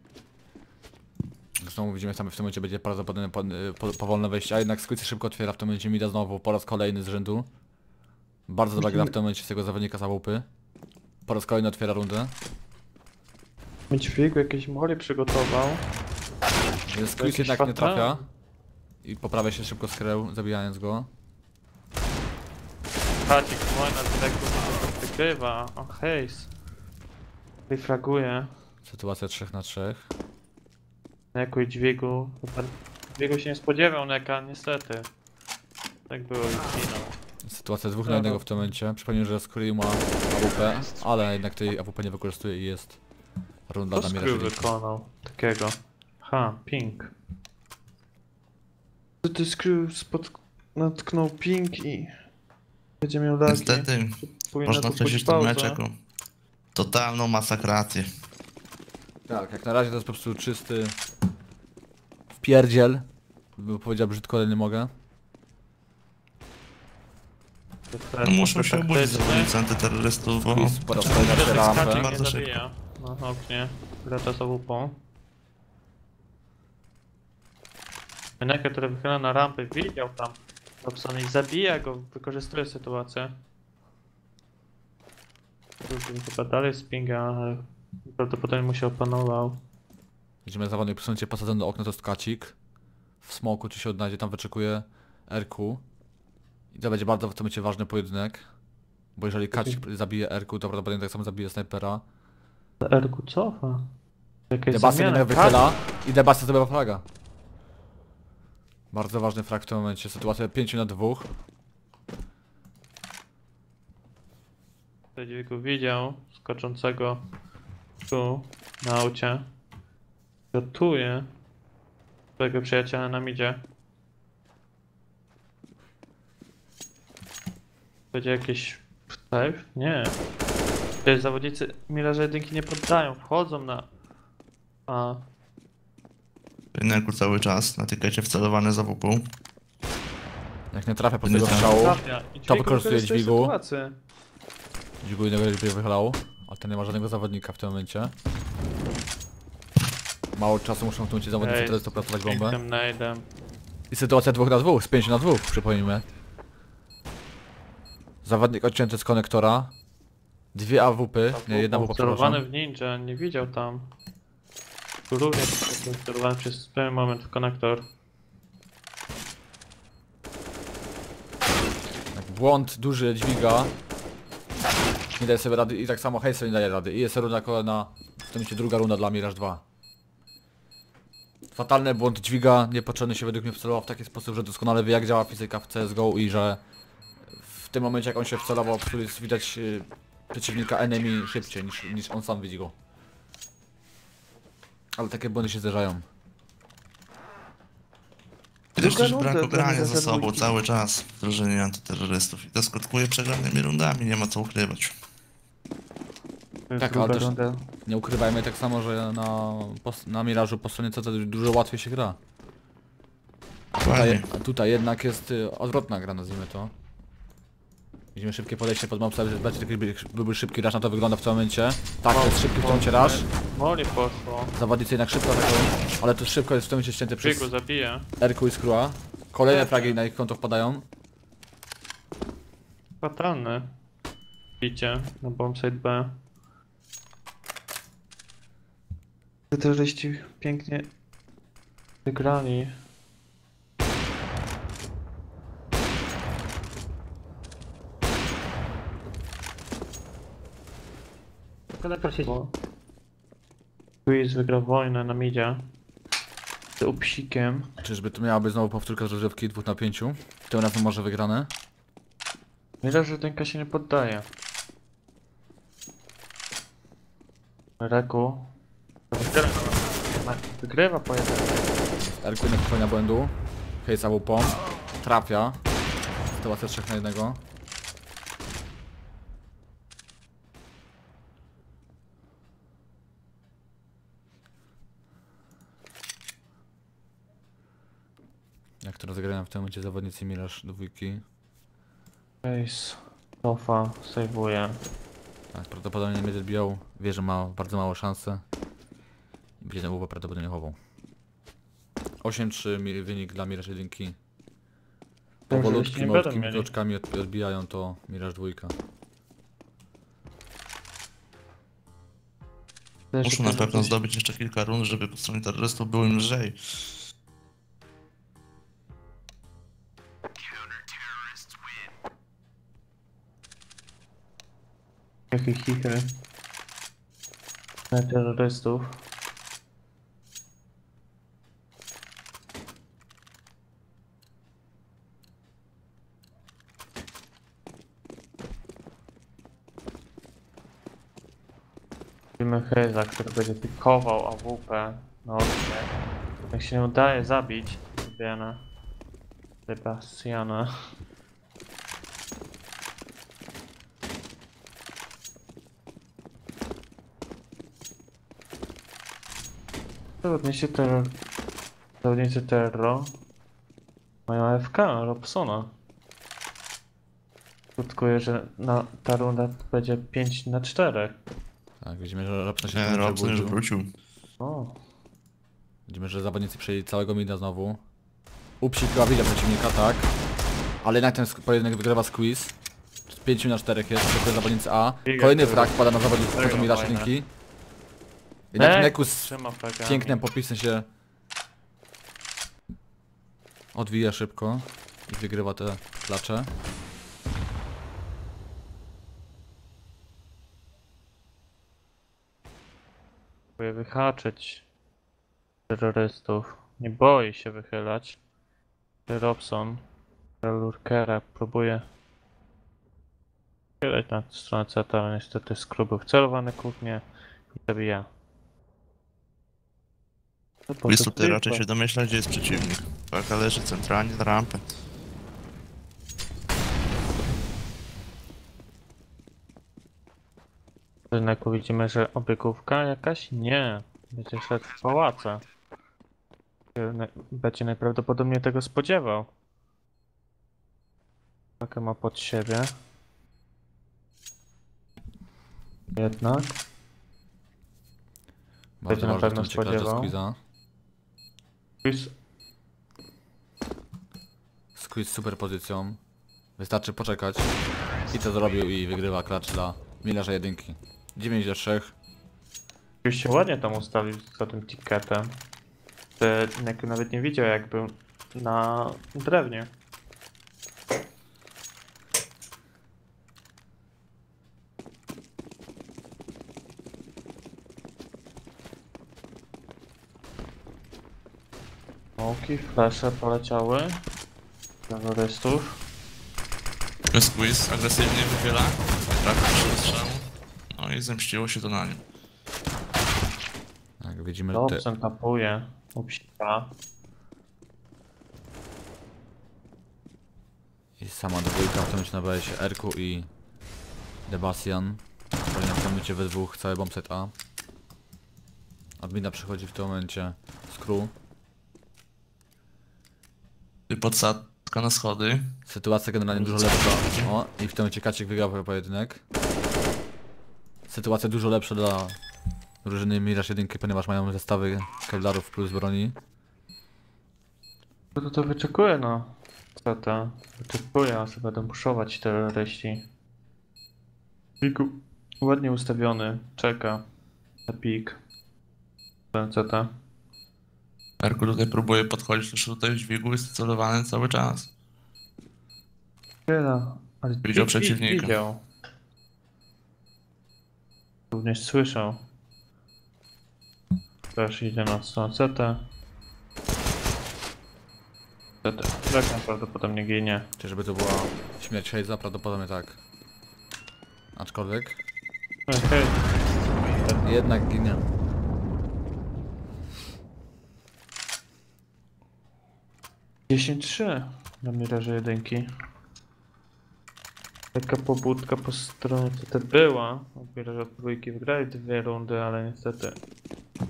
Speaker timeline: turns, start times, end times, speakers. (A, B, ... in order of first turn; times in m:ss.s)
0:01.6-0:07.5 A
0:08.5-0:10.4 A
0:08.8-0:09.1 B
0:11.3-0:12.3 A
0:13.9-0:15.8 B
0:16.9-0:18.2 A
0:17.2-0:18.2 B
0:19.0-0:21.1 A
0:23.2-0:26.5 B
0:27.7-0:28.5 B
0:28.8-0:30.1 A
0:31.3-0:35.1 B
0:36.1-0:37.1 B
0:37.4-0:43.0 A
0:38.0-0:38.4 B
0:43.7-0:44.7 A
0:43.9-0:47.1 B
0:49.2-0:52.2 B
0:53.0-0:55.8 B
0:53.5-0:56.0 C
0:56.7-0:58.1 C
0:59.3-1:01.0 A
1:02.4-1:04.9 A
1:07.9-1:09.5 B
1:08.2-1:12.6 C
1:10.5-1:12.1 A
1:11.0-1:15.0 B
1:18.4-1:23.3 B
1:25.8-1:29.6 B
1:30.4-1:32.6 A
1:33.2-1:35.8 A
1:36.7-1:38.5 A
1:39.2-1:42.0 A
1:42.8-1:43.8 B
1:44.5-1:45.7 B
1:44.7-1:47.0 A
1:48.9-1:51.3 A
1:55.2-1:57.2 B
1:58.1-1:59.4 B
2:00.5-2:01.3 B
2:02.4-2:03.6 B
2:08.1-2:10.2 B
2:11.0-2:13.8 B
2:14.9-2:15.2 B
2:16.7-2:19.3 C
2:20.7-2:23.5 A
2:21.2-2:21.7 C
2:21.3-2:23.9 B
2:25.0-2:28.1 A
2:30.3-2:32.6 A
2:31.4-2:33.2 B
2:33.9-2:36.0 A
2:38.2-2:39.7 A
2:40.5-2:42.4 A
2:41.3-2:43.9 B
2:45.1-2:47.8 B
2:52.1-2:53.7 A
2:55.2-2:59.6 A
3:01.5-3:06.6 A
3:07.3-3:12.7 A
3:15.0-3:16.0 A
3:18.8-3:24.9 C
3:18.8-3:20.5 B
3:26.7-3:27.6 B
3:26.8-3:27.3 A
3:27.8-3:32.2 A
3:33.7-3:36.7 A
3:33.8-3:34.3 C
3:38.1-3:43.2 A
3:42.1-3:44.5 B
3:44.5-3:47.5 A
3:47.2-3:48.1 B
3:48.2-3:50.8 A
3:49.5-3:50.0 B
3:53.0-3:53.7 B
3:54.6-3:56.1 B
3:59.5-4:00.8 B
4:02.0-4:02.7 B
4:12.1-4:12.5 B
4:14.0-4:15.6 B
4:16.8-4:17.7 B
4:17.8-4:21.5 A
4:22.8-4:24.2 B
4:27.8-4:28.5 B
4:29.1-4:31.8 B
4:32.1-4:35.6 A
4:36.4-4:37.4 A
4:48.8-4:51.2 A
4:52.4-4:54.8 B
4:55.5-4:58.4 A
4:59.6-5:00.8 A
5:02.2-5:04.2 A
5:05.5-5:06.7 B
5:05.5-5:08.7 A
5:13.1-5:13.9 B
5:13.2-5:17.0 C
5:25.3-5:26.1 B
5:27.9-5:29.0 B
5:42.4-5:45.9 B
5:46.5-5:48.6 B
5:49.7-5:50.7 B
6:00.2-6:01.1 B
6:02.0-6:03.1 B
6:04.3-6:05.7 B
6:07.8-6:11.2 B
6:11.8-6:13.6 A
6:12.7-6:13.9 C
6:14.4-6:14.8 B
6:15.9-6:17.8 A
6:18.6-6:20.1 A
6:20.8-6:22.5 A
6:23.1-6:27.3 A
6:25.0-6:27.1 B
6:28.5-6:29.3 A
6:28.6-6:30.2 B
6:29.8-6:30.9 A
6:33.7-6:36.5 A
6:43.6-6:44.6 B
6:45.7-6:48.2 B
6:49.1-6:49.8 B
6:50.4-6:51.8 B
6:53.8-6:57.0 B
6:57.6-6:58.1 B
7:00.7-7:01.6 B
7:00.9-7:04.6 C
7:11.1-7:15.4 B
7:16.7-7:19.3 B
7:21.6-7:22.7 B
7:25.9-7:26.6 B
7:28.8-7:30.4 A
7:28.9-7:30.1 B
7:31.8-7:32.1 B
7:34.8-7:36.0 A
7:36.6-7:37.5 A
7:38.1-7:41.9 A
7:43.0-7:45.3 B
7:46.2-7:49.7 B
8:02.2-8:04.0 B
8:04.9-8:05.8 B
8:07.1-8:12.0 C
8:14.0-8:14.8 A
8:14.5-8:16.7 B
8:21.0-8:23.3 A
8:24.3-8:27.3 A
8:29.0-8:31.1 A
8:33.9-8:35.5 C
8:35.6-8:39.2 A
8:36.5-8:37.0 C
8:40.9-8:42.2 A
8:42.8-8:46.2 A
8:48.2-8:53.0 B
8:54.6-8:57.0 B
8:57.7-8:58.2 B
8:59.3-8:59.9 B
9:01.2-9:04.7 C
9:06.5-9:08.6 B
9:07.4-9:08.4 C
9:11.3-9:12.2 B
9:14.3-9:15.8 B
9:18.6-9:20.5 B
9:20.6-9:23.0 A
9:24.4-9:25.0 A
9:25.7-9:26.3 B
9:27.0-9:27.3 B
9:27.2-9:28.0 A
9:33.5-9:35.7 B
9:37.7-9:43.2 B